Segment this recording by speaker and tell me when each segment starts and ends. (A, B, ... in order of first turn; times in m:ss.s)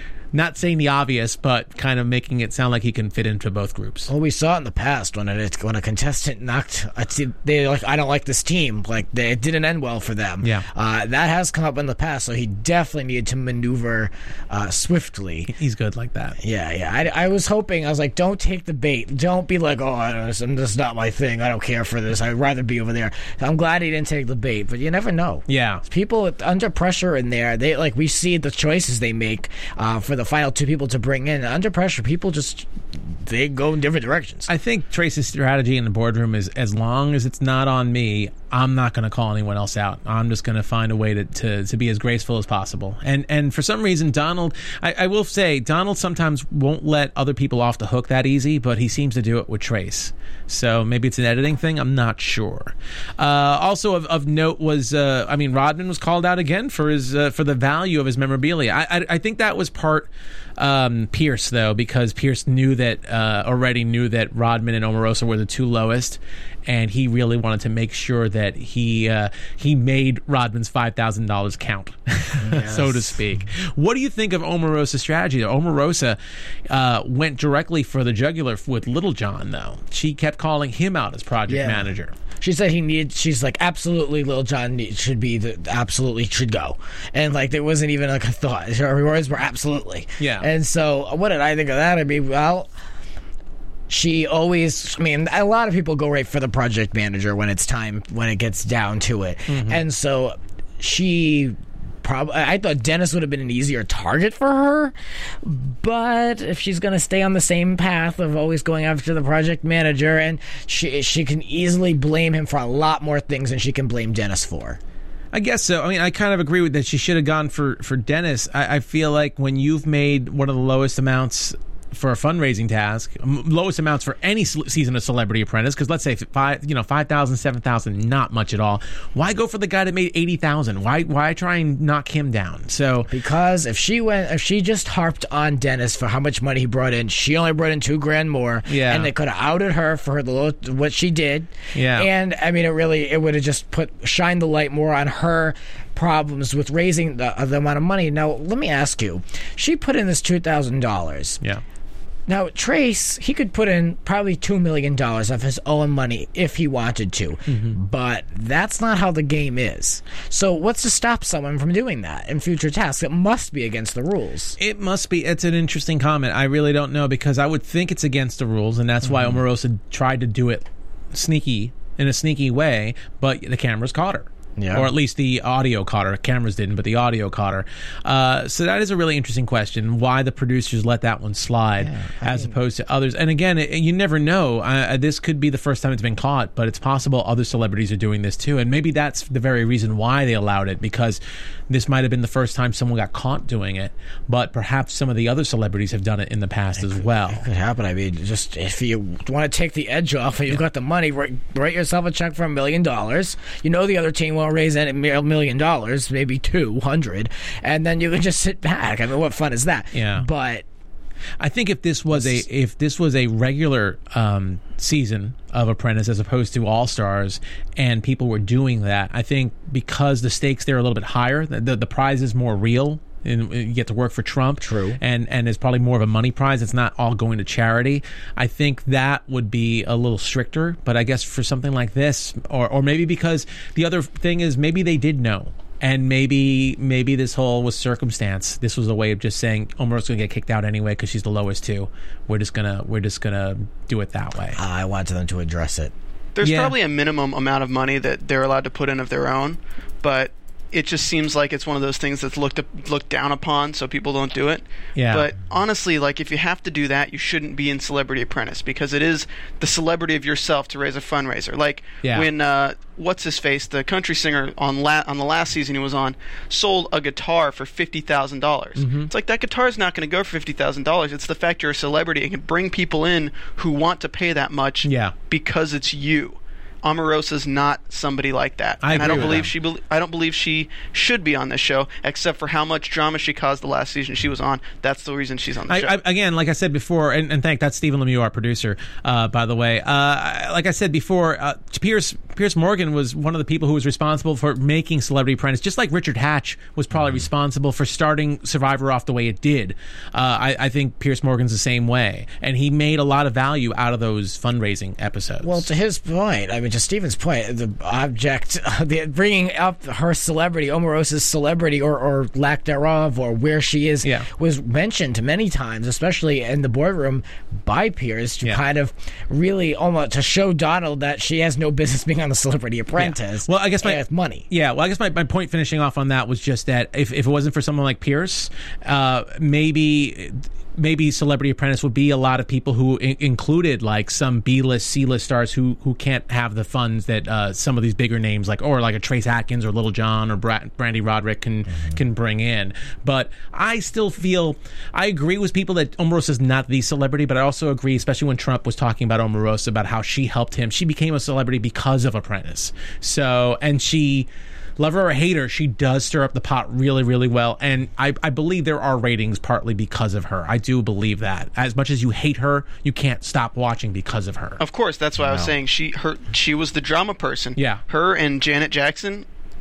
0:00.3-0:04.1 A
0:04.1-0:15.5 B
0:15.5-0:16.4 A
0:16.4-0:34.5 B
0:25.5-0:25.8 A
0:34.5-1:16.2 A
1:12.4-1:13.2 B
1:16.7-1:22.1 A
1:21.5-1:32.7 B
1:30.2-1:30.5 A
1:33.9-1:54.8 B
1:39.5-1:39.8 A
1:55.3-2:13.1 A
2:13.1-2:31.4 B
2:18.7-2:19.1 A
2:21.8-2:22.1 A
2:32.3-2:44.6 B
2:37.5-2:37.8 A
2:44.6-3:17.4 A
2:49.0-2:49.4 B
2:54.6-2:54.9 B
3:01.8-3:02.5 B
3:16.8-3:30.6 B
3:29.9-3:30.3 A
3:31.4-4:04.6 A
3:32.1-3:32.4 B
3:44.6-3:45.0 B
4:04.6-4:05.9 B
4:06.4-4:45.9 C
4:06.4-4:06.8 A
4:15.0-4:15.3 A
4:22.0-4:22.3 A
4:28.8-4:29.1 A
4:34.8-4:35.2 A
4:38.8-4:39.5 A
4:39.0-4:39.5 B
4:45.7-5:05.6 A
5:05.4-5:24.5 B
5:23.0-6:04.6 A
6:04.6-6:09.3 C
6:05.2-6:05.5 B
6:07.6-6:07.8 A